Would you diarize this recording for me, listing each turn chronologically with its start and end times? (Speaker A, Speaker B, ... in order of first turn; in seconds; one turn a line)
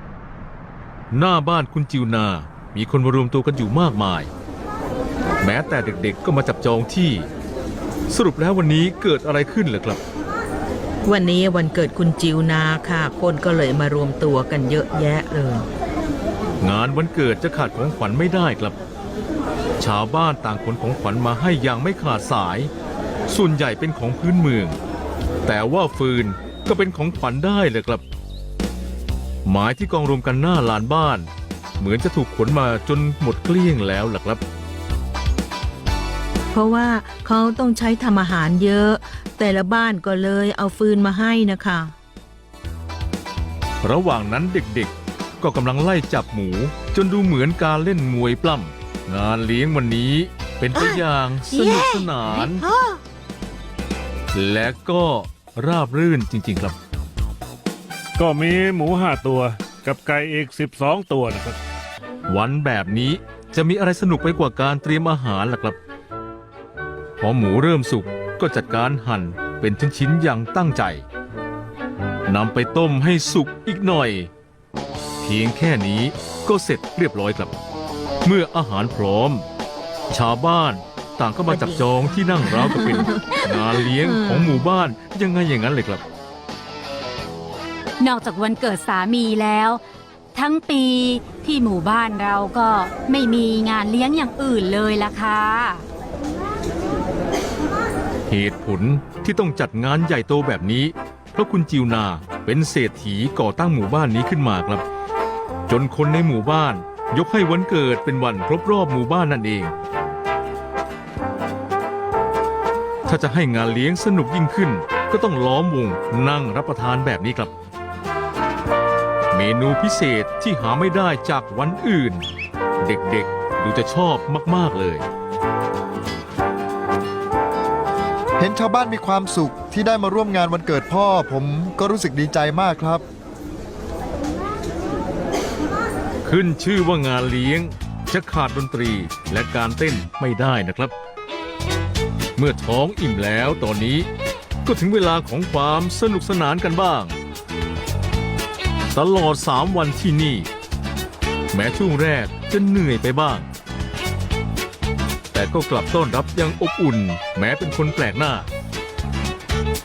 Speaker A: 1.1-4.3
Speaker A: 5.4-7.3
Speaker A: 8.1-10.0
Speaker B: 11.0-15.7
Speaker A: 16.6-18.8
Speaker A: 19.8-22.7
Speaker A: 23.3-24.8
Speaker A: 25.4-28.0
Speaker A: 29.4-34.4
Speaker B: 36.5-41.9
Speaker A: 43.8-52.6
Speaker B: 50.7-51.0
Speaker B: 51.5-53.0
Speaker A: 54.3-56.8
Speaker C: 58.2-61.6
Speaker A: 62.3-65.8
Speaker A: 67.2-71.0
Speaker A: 72.3-74.3
Speaker A: 75.2-77.5
Speaker A: 78.2-79.5
Speaker A: 80.1-86.0
Speaker B: 81.5-81.8
Speaker B: 82.7-83.4
Speaker B: 84.0-84.5
Speaker D: 88.0-89.8
Speaker D: 90.3-95.8
Speaker A: 98.3-104.8
Speaker A: 105.7-109.7
Speaker A: 113.0-117.5
Speaker A: 119.3-122.2
Speaker A: 122.8-125.0
Speaker E: 128.4-133.0
Speaker A: 136.2-140.9
Speaker A: 142.3-144.1
Speaker A: 144.6-147.2
Speaker A: 148.9-150.5
Speaker A: 151.5-153.5
Speaker A: 155.3-158.5